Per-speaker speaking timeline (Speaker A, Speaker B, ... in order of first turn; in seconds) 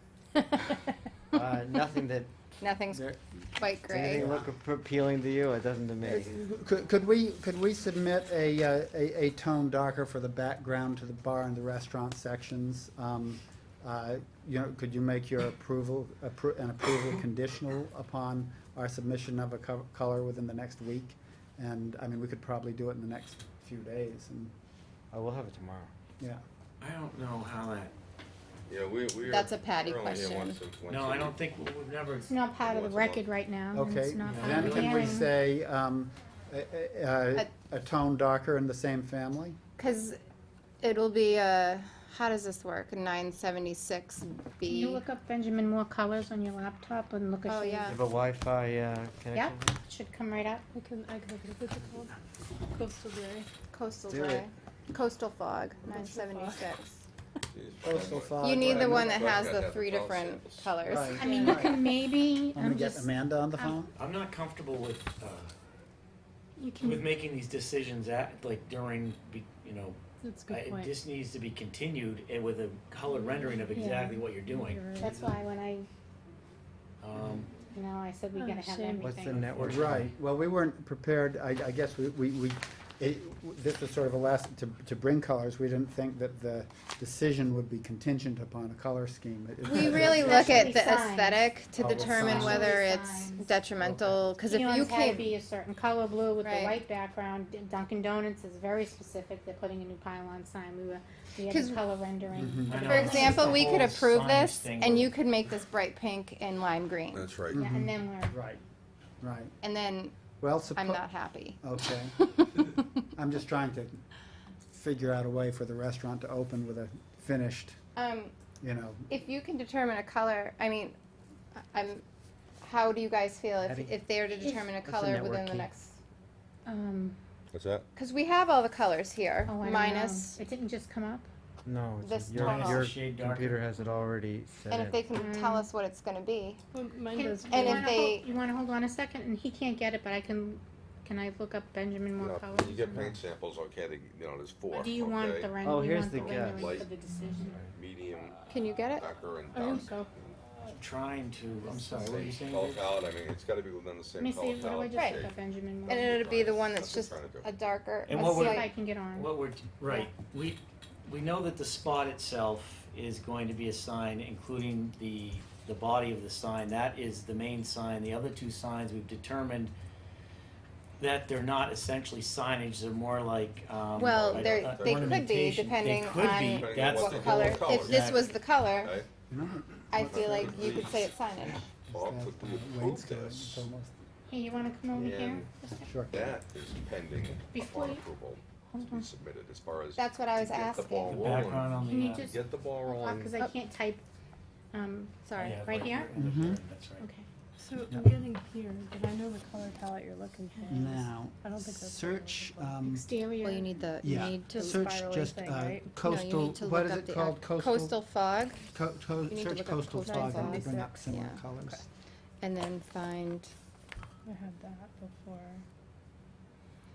Speaker A: 1.3-2.3, 3.8-6.3, 25.1-25.9, 47.8-49.8, 54.1-54.5, 79.0-80.1, 123.6-124.0, 124.8-125.7, 131.7-135.2, 145.6-146.7
Speaker B: 2.6-4.3, 29.3-30.6, 39.8-40.2, 40.8-45.0, 47.5-48.0, 53.7-57.0, 58.4-61.8, 89.6-95.3, 96.4-96.8, 101.5-101.8, 102.7-107.3, 109.6-110.2, 110.7-111.6, 112.4-112.8, 118.0-118.3, 119.1-121.0, 121.6-122.0, 122.6-126.0, 128.0-130.3, 132.0-132.9, 134.7-136.6, 137.5-138.3, 148.5-149.1, 154.9-155.2, 155.9-158.7, 173.9-179.0, 179.9-181.7, 189.9-191.4, 195.2-195.7, 203.4-204.8, 206.0-208.6, 209.3-211.4, 212.4-213.5
Speaker C: 4.1-4.5, 6.0-24.5, 33.7-39.6, 57.8-59.4, 60.9-61.9, 62.5-63.9, 79.5-90.8, 91.8-92.8, 93.8-94.2, 102.3-103.3, 107.5-108.6, 109.2-109.5, 110.4-112.2, 113.2-114.0, 114.7-117.8, 118.6-119.1, 179.3-180.9, 181.4-184.0, 185.8-186.3, 196.2-196.6, 200.7-203.1, 204.0-208.0, 208.6-211.8
Speaker D: 26.8-27.9, 30.9-32.3, 34.2-35.2, 64.0-65.5, 66.8-75.3, 77.0-77.5, 79.2-80.1, 102.7-105.1, 132.3-133.6, 150.7-152.9, 158.1-169.7, 171.0-178.3, 191.0-192.3, 195.4-197.1
Speaker E: 28.7-31.6, 32.6-33.3, 57.5-61.1, 107.1-107.6, 127.5-127.8, 142.2-145.6, 146.1-146.9, 147.6-148.4, 148.9-150.4, 151.9-155.3, 156.1-157.5, 174.0-175.3, 176.4-179.1, 180.0-183.7, 184.9-185.5, 186.1-193.3
Speaker F: 32.3-35.3, 44.7-48.0, 49.3-50.6, 61.1-63.8, 66.6-67.0, 73.7-74.0, 75.0-75.9, 77.7-79.5, 89.7-93.5, 94.4-103.8, 107.5-108.4, 124.3-124.8, 126.7-127.2, 129.4-131.3, 135.1-135.7, 137.1-143.2, 144.7-147.6, 149.5-150.1, 154.2-156.2, 158.1-160.1, 184.3-185.9, 187.5-188.1, 188.7-189.1, 191.8-194.0, 194.7-196.1, 197.0-197.2, 203.0-203.6
Speaker G: 50.7-52.1, 52.7-53.5, 55.9-56.7, 61.2-61.7, 70.2-70.9, 73.2-75.2, 78.3-79.1, 136.7-138.1, 197.6-206.0, 210.0-211.8, 214.2-215.6